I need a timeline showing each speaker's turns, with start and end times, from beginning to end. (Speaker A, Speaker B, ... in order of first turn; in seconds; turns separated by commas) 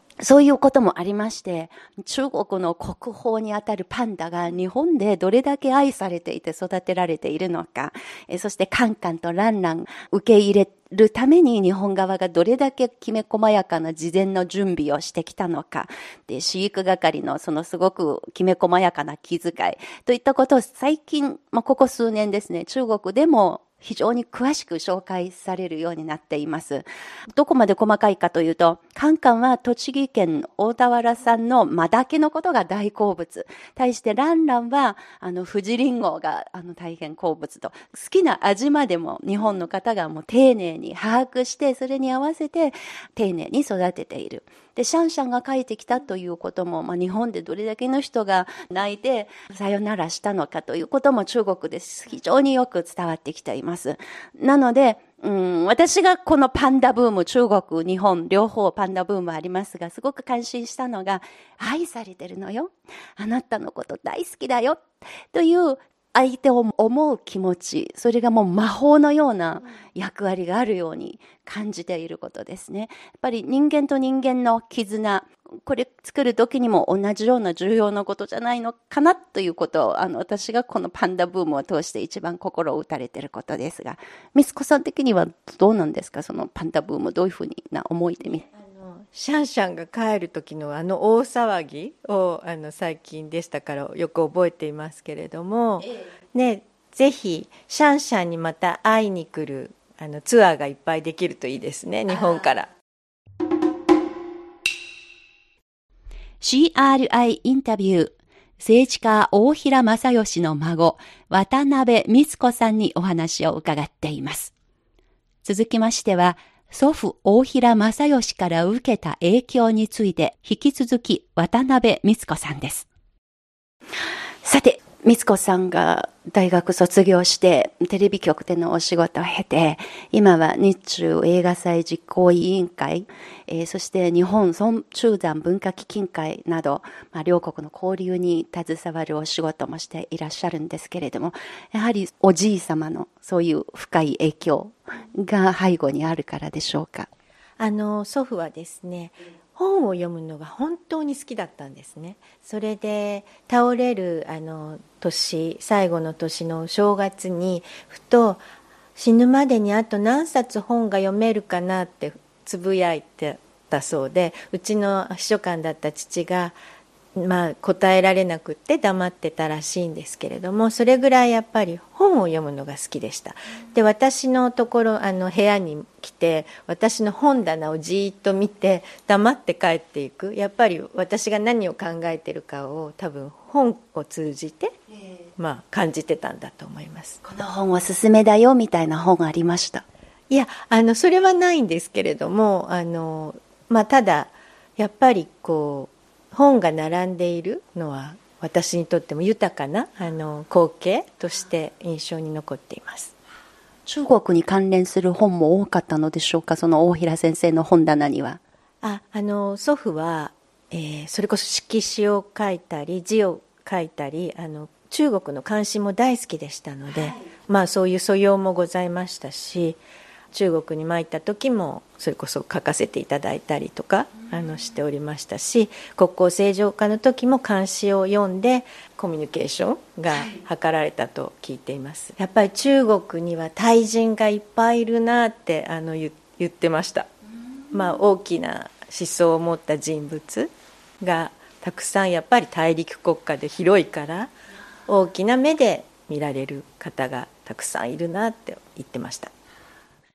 Speaker A: 0.2-88.4, Speaker B: 88.4-102.7, Speaker A: 106.4-114.5, Speaker A: 115.4-122.9, Speaker A: 124.4-147.1, Speaker B: 147.6-158.4, Speaker B: 158.9-166.6, Speaker B: 167.1-184.7, Speaker B: 185.4-187.2, Speaker A: 187.2-189.8, Speaker B: 190.3-203.1, Speaker A: 203.8-208.4, Speaker B: 208.8-219.8, Speaker B: 220.3-237.1, Speaker A: 230.1-230.4, Speaker B: 237.7-244.3, Speaker B: 244.9-249.3